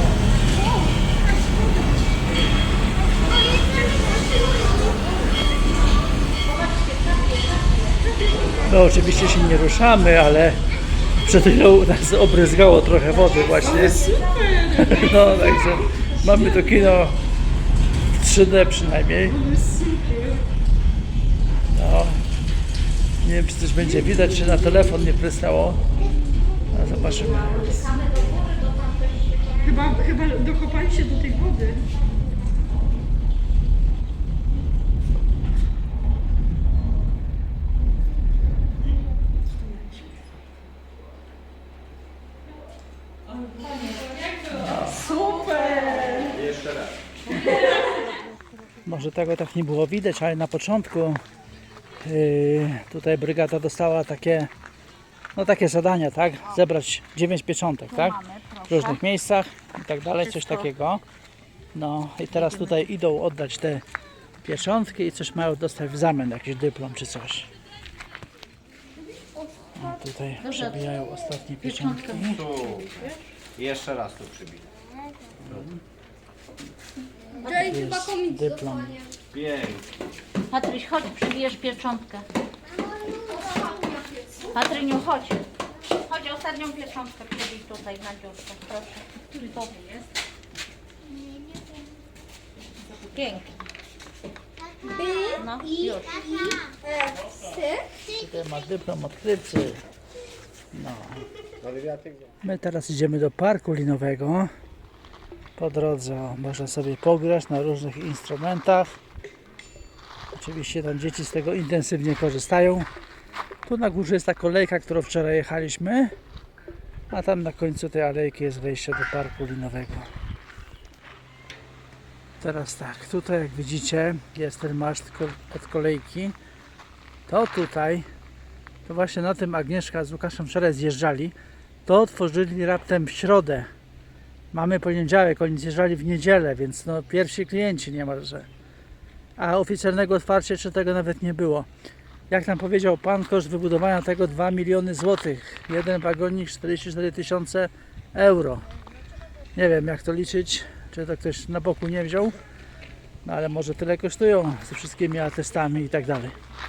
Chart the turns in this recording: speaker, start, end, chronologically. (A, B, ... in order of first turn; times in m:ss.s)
0:06.5-0:07.9 A
0:08.6-0:10.6 B
0:11.2-0:14.1 B
0:13.7-0:15.0 C
0:14.0-0:14.5 A
0:14.7-0:17.2 B
0:18.1-0:19.4 B
0:19.3-0:20.4 C
0:21.8-0:22.2 B
0:23.2-0:25.8 B
0:26.7-0:27.9 B
0:27.2-0:30.0 A
0:29.6-0:31.9 C
0:39.6-0:40.1 C
0:44.5-0:45.0 B
0:45.0-0:46.3 A
0:45.1-0:46.2 C
0:46.3-0:46.9 D
0:47.4-0:47.9 A
0:48.8-0:51.2 B
0:52.0-0:54.5 B
0:55.4-0:58.2 B
0:57.9-0:59.0 A
0:58.7-1:01.0 B
1:00.2-1:00.7 A
1:01.7-1:03.8 B
1:02.3-1:02.9 A
1:04.4-1:07.5 B
1:09.8-1:12.4 B
1:10.4-1:10.8 A
1:11.6-1:13.2 A
1:12.3-1:14.7 D
1:15.4-1:15.8 B
1:17.4-1:17.8 A
1:17.4-1:19.0 B
1:19.3-1:19.8 D
1:20.5-1:22.3 A
1:24.5-1:30.1 A
1:32.9-1:33.6 A
1:35.4-1:36.7 A
1:38.1-1:39.8 B
1:40.7-1:41.3 B
1:41.6-1:42.1 D
1:42.4-1:44.5 B
1:45.6-1:49.0 B
1:50.3-1:52.9 B
1:53.7-1:56.1 B
1:57.1-2:00.1 B
2:02.4-2:06.4 B
2:07.3-2:08.1 B
2:08.8-2:11.4 B
2:11.9-2:13.7 B
2:14.5-2:18.5 B
2:19.4-2:21.7 B
2:22.3-2:28.6 B
2:29.6-2:32.4 B
2:33.2-2:36.4 B